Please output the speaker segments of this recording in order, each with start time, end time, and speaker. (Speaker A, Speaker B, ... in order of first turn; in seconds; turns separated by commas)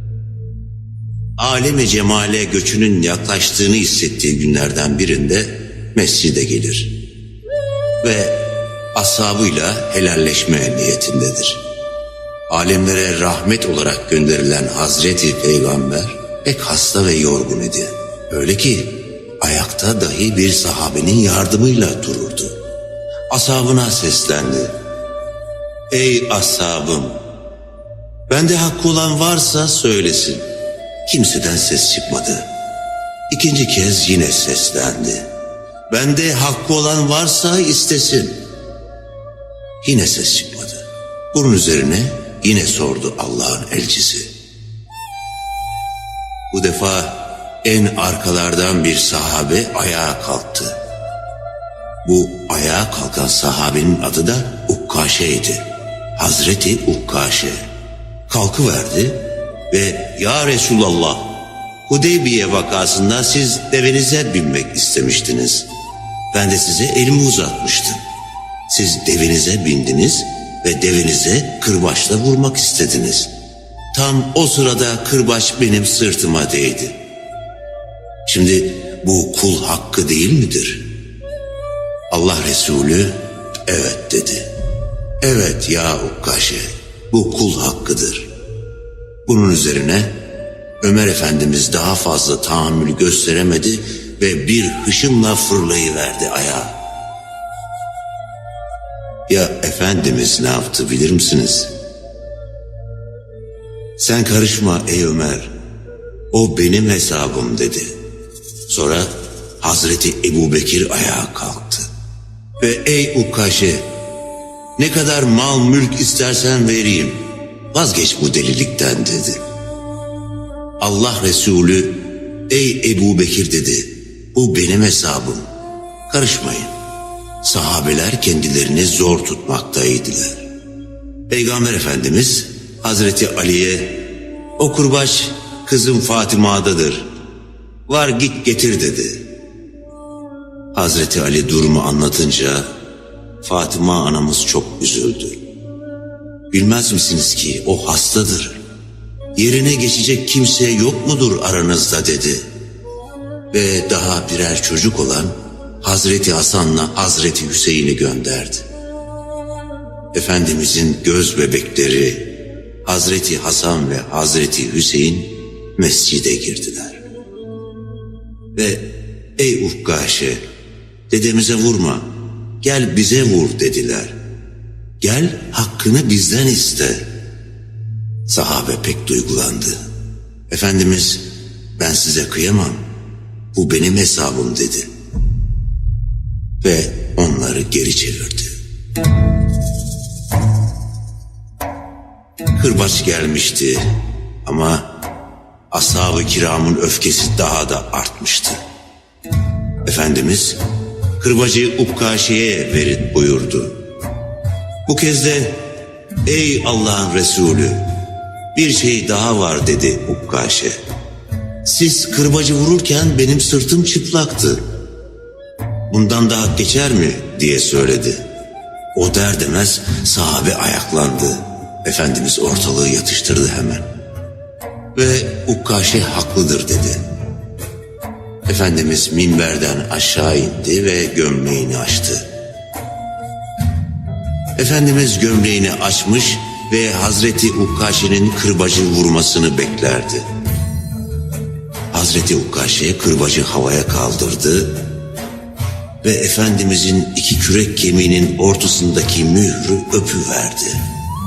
Speaker A: 1.4-6.9, Speaker A: 8.0-8.4, Speaker A: 8.9-11.6, Speaker A: 12.5-22.6, Speaker A: 23.3-24.7, Speaker A: 25.9-27.2, Speaker A: 28.3-30.4, Speaker A: 31.1-32.5, Speaker A: 33.3-35.3, Speaker A: 35.9-38.4, Speaker A: 39.8-44.3, Speaker A: 46.5-50.8, Speaker A: 52.0-55.6, Speaker A: 56.2-57.7, Speaker A: 58.3-61.3, Speaker A: 61.9-65.7, Speaker A: 66.3-68.0, Speaker A: 68.7-73.3, Speaker A: 73.9-77.0, Speaker A: 78.3-80.8, Speaker A: 82.1-84.5, Speaker A: 85.2-88.3, Speaker A: 89.3-90.1, Speaker A: 90.8-96.8, Speaker A: 99.3-101.7, Speaker A: 104.0-105.5, Speaker A: 106.3-107.9, Speaker A: 108.7-111.9, Speaker A: 112.6-113.8, Speaker A: 114.8-119.4, Speaker A: 120.8-125.5, Speaker A: 126.1-126.7, Speaker A: 127.4-130.5, Speaker A: 131.3-134.0, Speaker A: 134.6-137.1, Speaker A: 137.9-139.2, Speaker A: 140.7-142.7, Speaker A: 143.4-145.4, Speaker A: 146.5-148.6, Speaker A: 149.3-152.5, Speaker A: 153.5-158.7, Speaker A: 160.1-162.3, Speaker A: 162.8-167.0, Speaker A: 168.6-168.9, Speaker A: 169.4-170.4, Speaker A: 171.1-172.1, Speaker A: 172.6-174.2, Speaker A: 175.0-177.1, Speaker A: 178.3-179.8, Speaker A: 180.5-181.2, Speaker A: 181.8-182.8, Speaker A: 183.5-184.9, Speaker A: 186.6-188.6, Speaker A: 192.6-193.8, Speaker A: 194.4-194.9, Speaker A: 195.7-198.6, Speaker A: 199.8-200.6, Speaker A: 201.2-203.8, Speaker A: 204.9-205.6, Speaker A: 206.3-207.8, Speaker A: 208.5-210.8, Speaker A: 211.6-214.6, Speaker A: 215.9-218.2, Speaker A: 218.9-223.9, Speaker A: 224.9-227.0, Speaker A: 228.5-232.3, Speaker A: 234.6-240.3, Speaker A: 241.9-244.8, Speaker A: 246.0-250.8